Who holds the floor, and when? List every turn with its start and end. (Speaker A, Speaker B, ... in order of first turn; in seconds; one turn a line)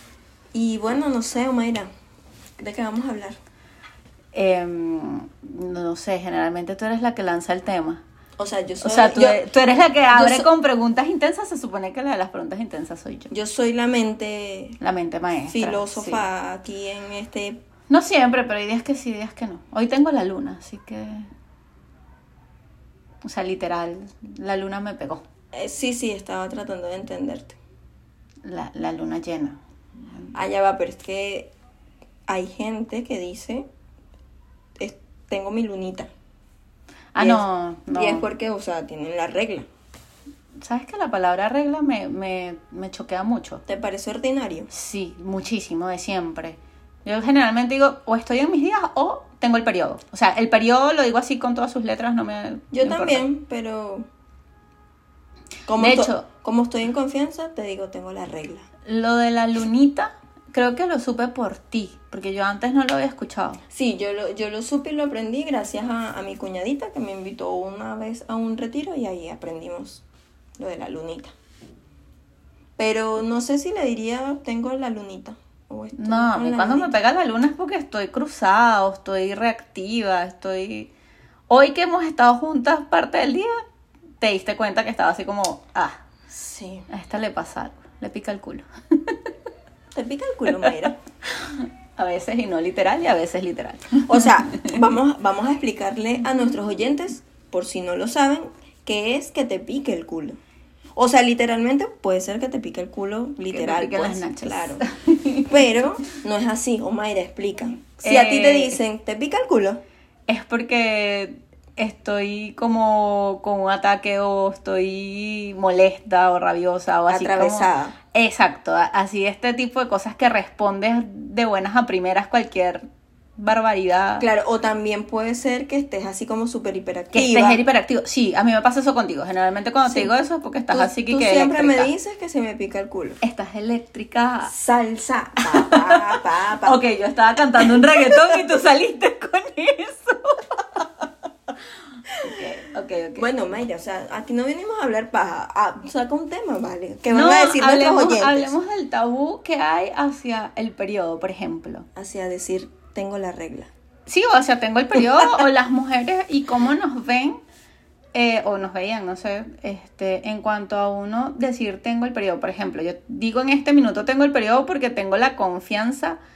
Speaker A: 0.5-1.9
Speaker A: 2.6-3.4
Speaker B: 4.3-8.0
Speaker A: 8.4-9.4
Speaker B: 8.8-13.3
Speaker A: 10.1-10.5
Speaker A: 13.3-14.8
Speaker B: 14.8-16.2
Speaker A: 15.5-17.6
Speaker B: 17.9-21.3
Speaker B: 23.2-25.2
Speaker A: 25.5-27.6
Speaker B: 28.4-30.3
Speaker A: 30.3-31.5
Speaker A: 32.3-33.6
Speaker A: 34.8-36.1
Speaker B: 37.1-38.2
Speaker A: 37.2-39.6
Speaker B: 40.6-43.6
Speaker A: 43.7-44.7
Speaker B: 44.7-53.3
Speaker A: 52.7-54.0
Speaker A: 55.7-58.7
Speaker B: 55.8-56.2
Speaker B: 58.9-63.6
Speaker A: 63.7-70.0
Speaker A: 70.6-71.3
Speaker A: 72.8-76.9
Speaker B: 76.0-80.9
Speaker B: 81.5-83.5
Speaker B: 84.2-86.0
Speaker A: 86.3-86.9
Speaker B: 86.9-89.2
Speaker A: 89.9-90.9
Speaker B: 91.2-94.6
Speaker A: 94.0-100.4
Speaker A: 101.0-104.8
Speaker B: 103.5-105.5
Speaker A: 105.5-109.8
Speaker B: 108.0-108.8
Speaker B: 110.3-122.8
Speaker A: 117.1-118.0
Speaker B: 123.4-124.2
Speaker A: 124.2-127.6
Speaker B: 127.1-131.9
Speaker A: 129.8-130.1
Speaker A: 130.7-133.2
Speaker B: 133.2-134.5
Speaker A: 134.4-136.8
Speaker B: 135.6-136.0
Speaker B: 136.6-140.9
Speaker B: 142.2-143.3
Speaker A: 143.2-148.5
Speaker B: 147.1-151.8
Speaker A: 151.9-153.7
Speaker B: 154.1-157.4
Speaker B: 158.1-166.2